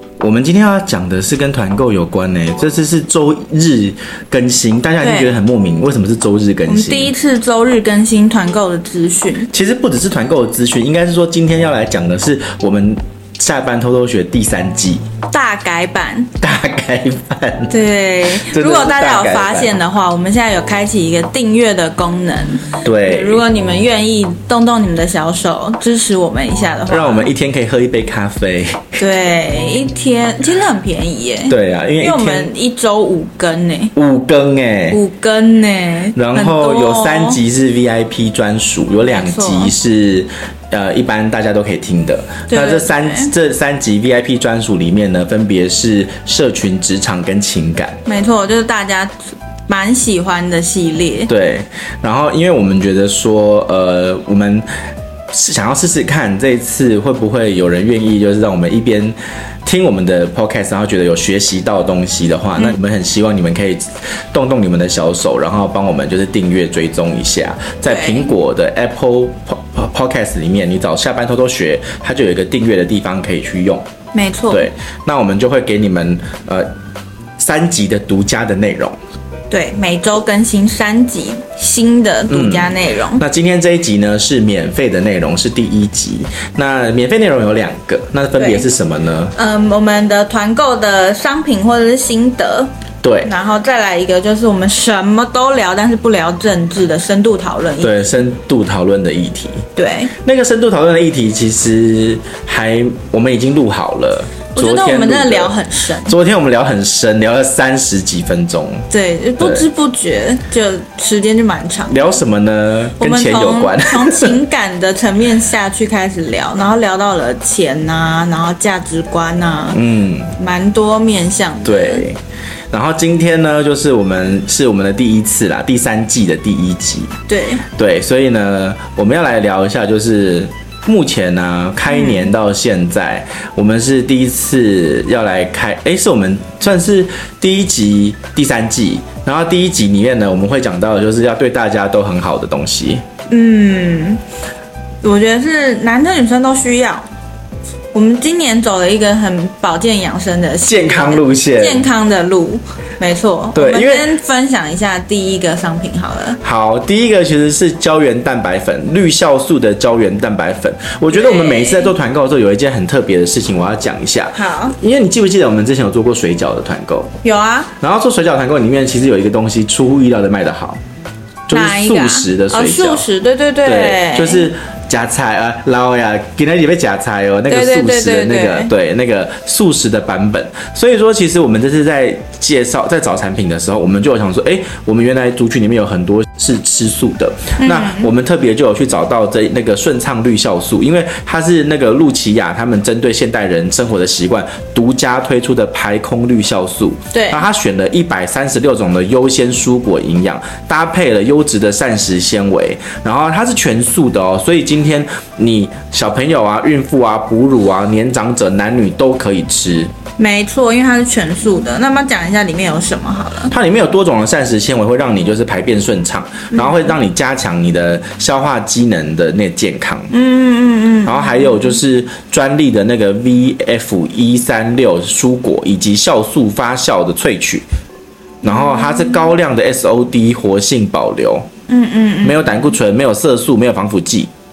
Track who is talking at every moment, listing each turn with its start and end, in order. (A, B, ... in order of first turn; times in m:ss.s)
0:00.2-0:07.1 A
0:05.0-0:05.3 B
0:06.7-0:09.5 B
0:09.5-0:15.0 A
0:15.3-0:16.3 B
0:16.4-0:17.7 A
0:17.7-0:27.3 B
0:18.3-0:19.8 A
0:22.8-0:23.4 A
0:26.9-0:29.0 A
0:29.0-0:33.9 B
0:31.5-0:32.5 A
0:33.9-0:35.0 A
0:34.9-0:37.4 B
0:36.2-0:48.0 A
0:39.0-0:39.7 B
0:42.5-0:43.3 B
0:48.0-0:49.1 B
0:49.7-0:51.3 B
0:51.3-0:54.6 A
0:55.3-1:13.9 A
1:07.8-1:08.3 B
1:14.1-1:14.7 B
1:14.5-1:16.7 A
1:17.4-1:19.0 A
1:19.5-1:23.2 B
1:22.3-1:29.3 A
1:28.4-1:28.6 B
1:29.3-1:32.7 B
1:33.0-1:33.3 A
1:33.2-1:38.1 B
1:37.8-1:39.6 A
1:39.8-1:40.1 B
1:40.2-1:48.8 A
1:44.5-1:46.2 B
1:48.9-1:52.1 B
1:49.4-1:49.7 A
1:51.9-1:54.4 A
1:53.0-1:59.8 B
1:59.7-2:00.4 A
2:00.4-2:02.0 B
2:01.6-2:02.2 A
2:02.7-2:07.2 A
2:07.3-2:07.6 B
2:07.7-2:23.0 A
2:11.9-2:12.3 B
2:23.3-2:24.2 B
2:25.0-2:27.0 B
2:27.9-2:36.4 B
2:30.6-2:31.8 A
2:33.5-2:34.1 A
2:36.4-2:47.1 A
2:41.1-2:41.9 B
2:44.3-2:44.8 B
2:47.2-2:47.7 B
2:47.8-2:50.8 A
2:51.5-2:53.1 A
2:51.5-2:54.5 B
2:53.6-3:29.9 A
2:57.5-2:58.7 B
3:07.6-3:08.1 B
3:17.1-3:17.4 B
3:30.2-3:33.5 B
3:33.5-3:40.1 A
3:36.5-3:36.9 B
3:40.1-3:41.8 B
3:41.0-3:47.6 A
3:48.4-3:49.3 B
3:48.4-3:51.5 A
3:51.7-3:52.7 B
3:52.2-3:54.3 A